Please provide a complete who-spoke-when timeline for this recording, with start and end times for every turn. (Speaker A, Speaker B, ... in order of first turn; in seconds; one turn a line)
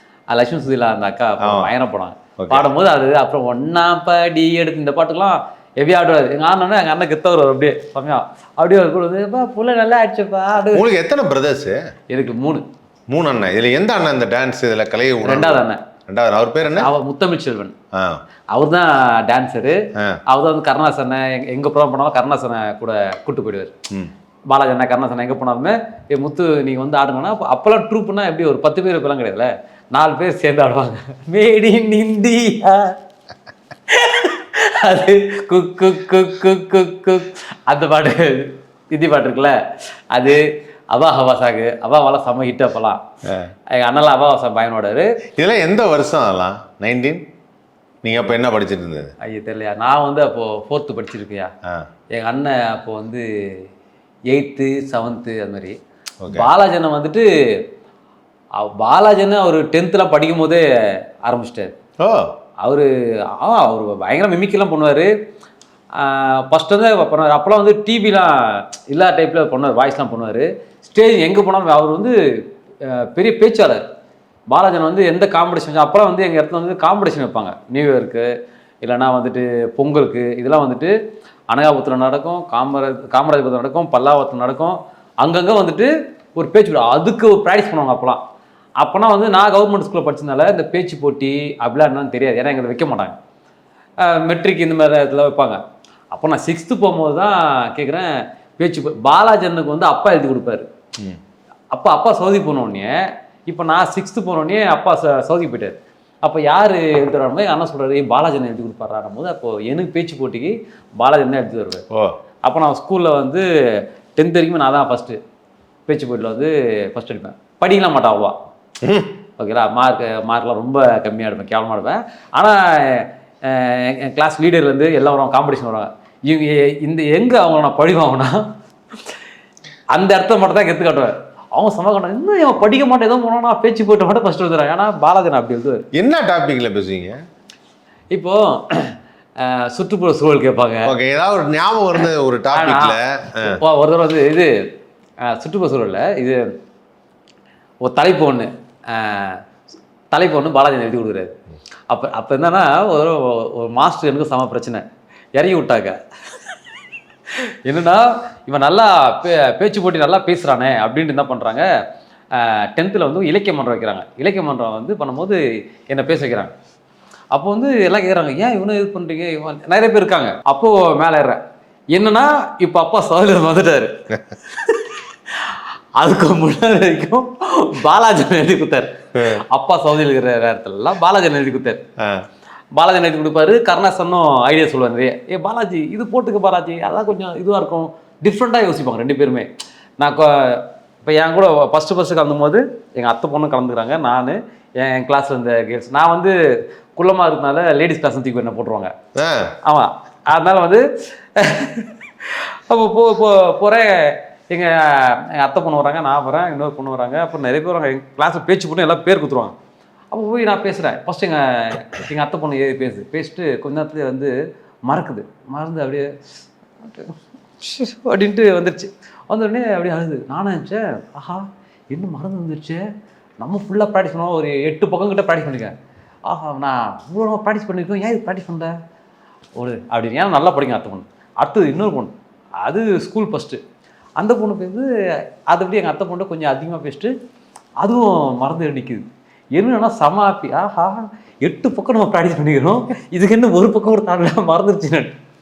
Speaker A: 0.3-10.8
Speaker B: 1.4-1.7
Speaker B: 2.4-2.7
Speaker B: 10.7-11.8
Speaker A: 12.1-12.7
Speaker B: 13.1-16.9
Speaker A: 15.2-15.8
Speaker A: 16.6-17.8
Speaker B: 17.9-18.2
Speaker A: 18.5-23.7
Speaker A: 24.5-33.0
Speaker A: 33.9-39.6
Speaker A: 40.1-43.0
Speaker A: 43.7-45.1
Speaker B: 45.4-47.2
Speaker B: 48.0-49.1
Speaker A: 49.2-51.5
Speaker A: 52.1-53.7
Speaker A: 54.3-55.8
Speaker B: 56.2-56.5
Speaker A: 56.3-57.6
Speaker A: 58.6-60.6
Speaker A: 61.2-61.7
Speaker B: 62.0-62.3
Speaker A: 62.6-65.1
Speaker A: 66.0-72.2
Speaker A: 72.8-73.8
Speaker A: 74.5-78.3
Speaker A: 78.8-80.9
Speaker A: 81.5-88.2
Speaker A: 88.8-93.2
Speaker A: 94.0-95.6
Speaker A: 96.1-100.7
Speaker A: 101.7-111.8
Speaker A: 112.5-115.2
Speaker A: 115.9-118.4
Speaker B: 118.8-119.2
Speaker A: 119.4-128.5
Speaker A: 129.9-135.9
Speaker B: 135.9-137.2
Speaker A: 138.1-140.9
Speaker B: 140.9-143.6
Speaker A: 142.5-144.6
Speaker A: 145.2-146.5
Speaker A: 147.8-149.4
Speaker A: 150.1-151.4
Speaker A: 151.9-154.8
Speaker A: 155.4-156.0
Speaker A: 157.3-161.7
Speaker A: 162.3-166.5
Speaker A: 167.3-171.4
Speaker A: 171.9-173.9
Speaker A: 174.5-181.8
Speaker B: 179.2-179.4
Speaker B: 182.0-182.3
Speaker A: 182.8-196.4
Speaker A: 197.0-198.9
Speaker B: 199.2-199.6
Speaker A: 199.6-209.6
Speaker A: 210.1-214.3
Speaker A: 214.9-216.1
Speaker A: 216.8-222.8
Speaker A: 223.4-225.8
Speaker A: 226.3-228.8
Speaker A: 229.6-233.6
Speaker A: 234.2-234.9
Speaker A: 235.5-237.1
Speaker A: 237.8-245.2